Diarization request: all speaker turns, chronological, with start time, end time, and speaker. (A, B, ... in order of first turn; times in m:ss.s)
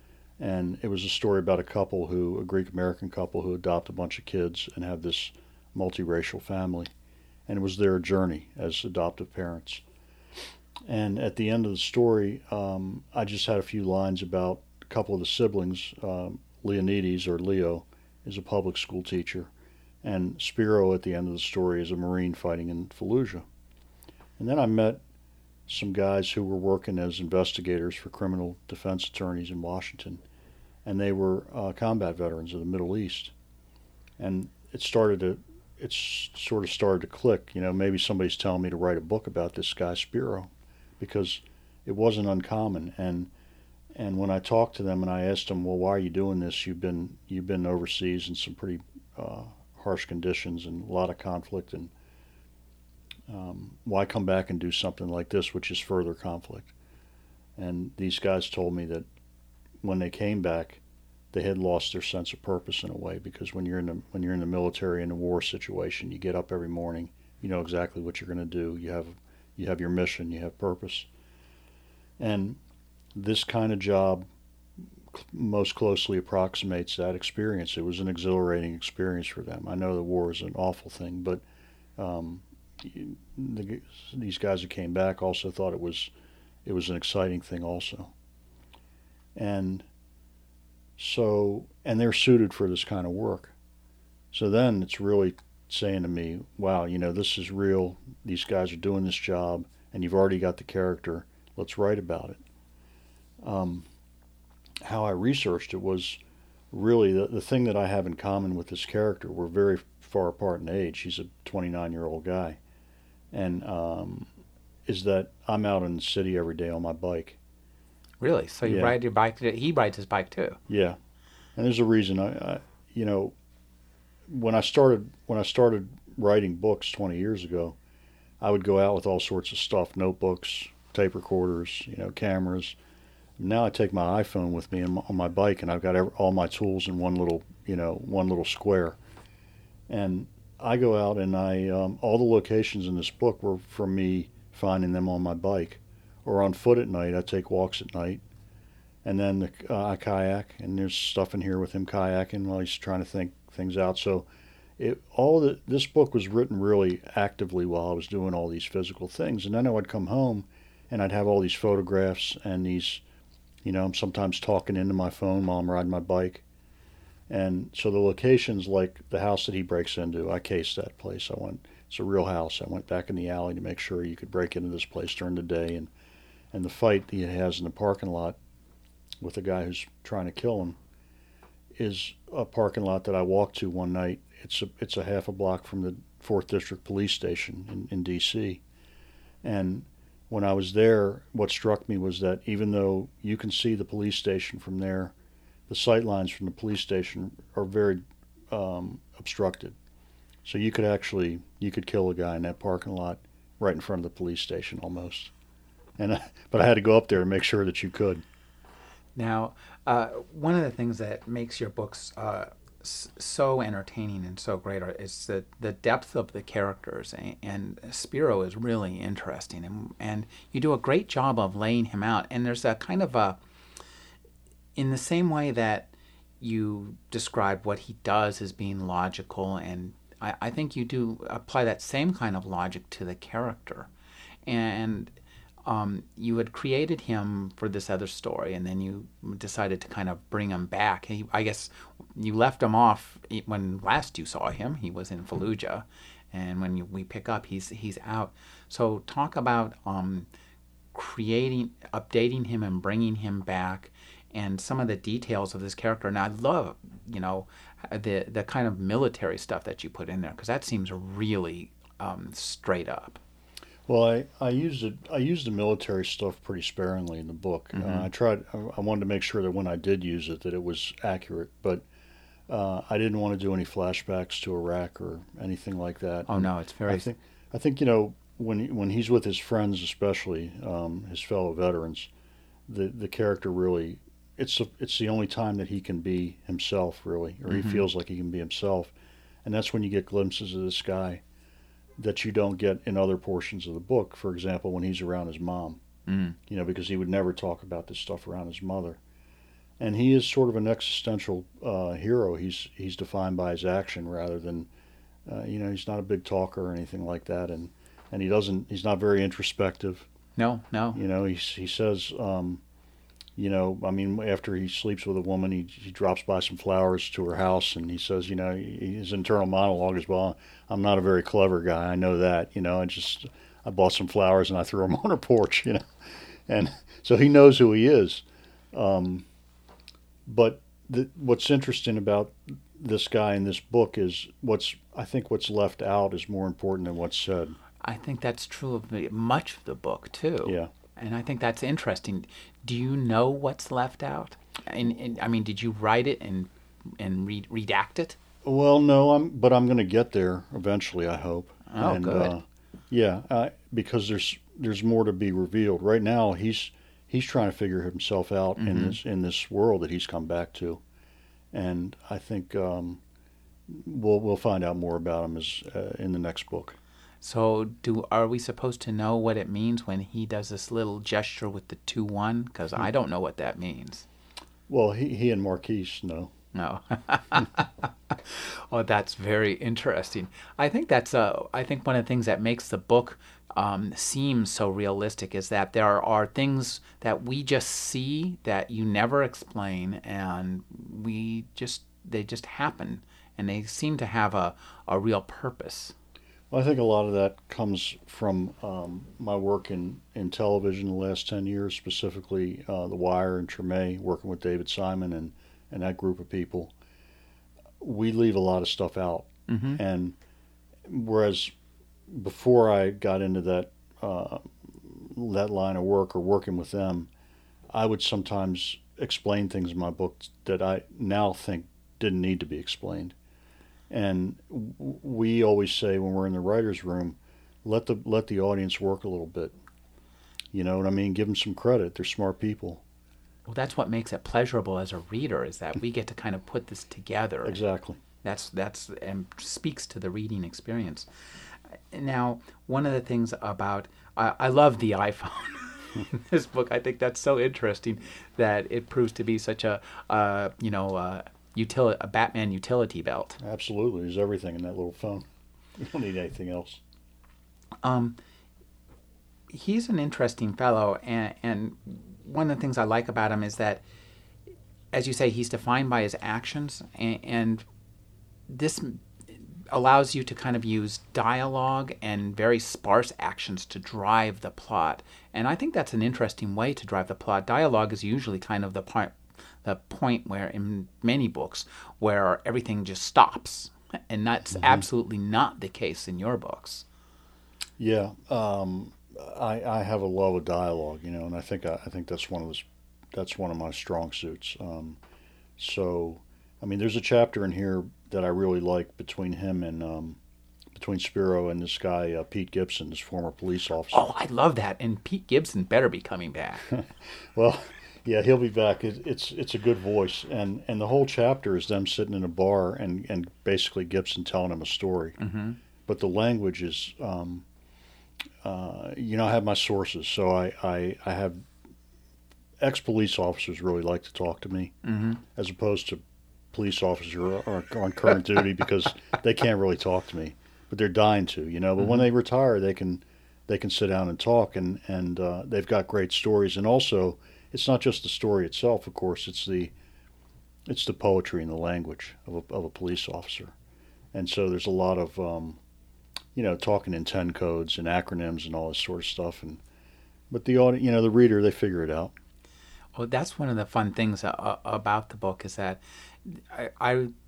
0:00.4-0:06.9 A
0:07.5-0:09.8 A
0:10.8-0:19.5 A
0:20.0-0:23.4 A
0:24.4-0:25.0 A
0:25.7-0:30.2 A
0:30.8-0:33.3 A
0:34.2-0:43.3 A
0:43.9-0:51.9 A
0:53.3-0:56.7 A
0:57.6-0:59.0 A
0:59.8-1:00.8 A
1:01.3-1:11.1 A
1:12.2-1:12.6 A
1:13.1-1:14.2 A
1:15.1-1:21.4 A
1:22.0-1:26.1 A
1:26.6-1:28.1 A
1:29.4-1:29.9 A
1:31.0-1:33.5 A
1:34.3-1:42.4 A
1:43.4-1:43.9 A
1:44.8-1:46.2 A
1:46.7-1:52.6 A
1:53.3-1:54.3 A
1:54.8-1:57.4 A
1:58.2-2:00.6 B
1:58.6-1:59.0 A
2:00.7-2:01.0 A
2:01.6-2:03.3 A
2:04.3-2:07.8 A
2:08.4-2:12.8 A
2:13.4-2:19.0 A
2:19.9-2:28.2 A
2:29.0-2:34.3 A
2:34.8-2:43.0 A
2:43.6-2:46.4 A
2:47.3-2:55.9 A
2:56.5-2:58.4 A
2:59.2-3:00.8 A
3:01.7-3:08.6 A
3:09.4-3:15.1 A
3:15.7-3:19.8 A
3:20.4-3:25.3 A
3:26.0-3:28.2 A
3:29.2-3:43.4 B
3:44.8-3:53.9 B
3:54.4-3:55.1 B
3:55.6-4:10.3 B
4:10.9-4:23.2 B
4:23.9-4:31.8 A
4:27.7-4:28.1 B
4:32.5-4:42.1 A
4:36.3-4:37.1 B
4:42.7-4:51.2 A
4:47.5-4:47.8 B
4:52.0-4:55.8 A
4:56.1-4:56.4 B
4:56.5-4:59.0 A
4:59.8-5:04.7 A
5:05.2-5:10.1 A
5:10.4-5:11.0 B
5:10.9-5:12.6 A
5:13.4-5:25.8 A
5:26.5-5:29.3 A
5:30.2-5:37.6 A
5:37.8-5:48.2 B
5:40.4-5:40.7 A
5:48.4-6:00.8 A
5:51.7-5:52.3 B
5:58.6-5:59.0 B
6:01.5-6:03.0 A
6:03.7-6:06.8 A
6:07.2-6:14.1 B
6:14.7-6:16.3 A
6:16.5-6:35.9 B
6:36.5-6:46.7 A
6:47.8-6:50.2 A
6:49.5-6:49.8 B
6:50.8-6:51.5 A
6:52.1-6:57.1 A
6:57.7-7:03.1 A
7:03.9-7:09.5 A
7:10.5-7:12.8 A
7:13.5-7:17.6 B
7:17.4-7:18.0 A
7:18.2-7:21.1 B
7:21.7-7:33.4 B
7:33.4-7:35.3 A
7:35.8-7:36.8 A
7:37.8-7:38.2 B
7:39.5-7:43.8 B
7:44.9-7:47.6 B
7:48.5-7:49.0 B
7:49.7-8:06.8 B
8:07.8-8:15.0 A
8:15.6-8:20.2 A
8:20.7-8:24.0 A
8:23.9-8:26.7 B
8:26.7-8:35.2 A
8:35.2-8:35.6 B
8:35.9-8:37.4 A
8:38.4-8:41.4 A
8:42.6-8:44.7 A
8:44.8-8:45.2 B
8:45.3-8:46.0 A
8:46.5-8:59.7 A
9:00.7-9:03.5 A
9:04.1-9:05.6 A
9:06.3-9:09.6 A
9:10.3-9:12.1 A
9:12.9-9:17.1 B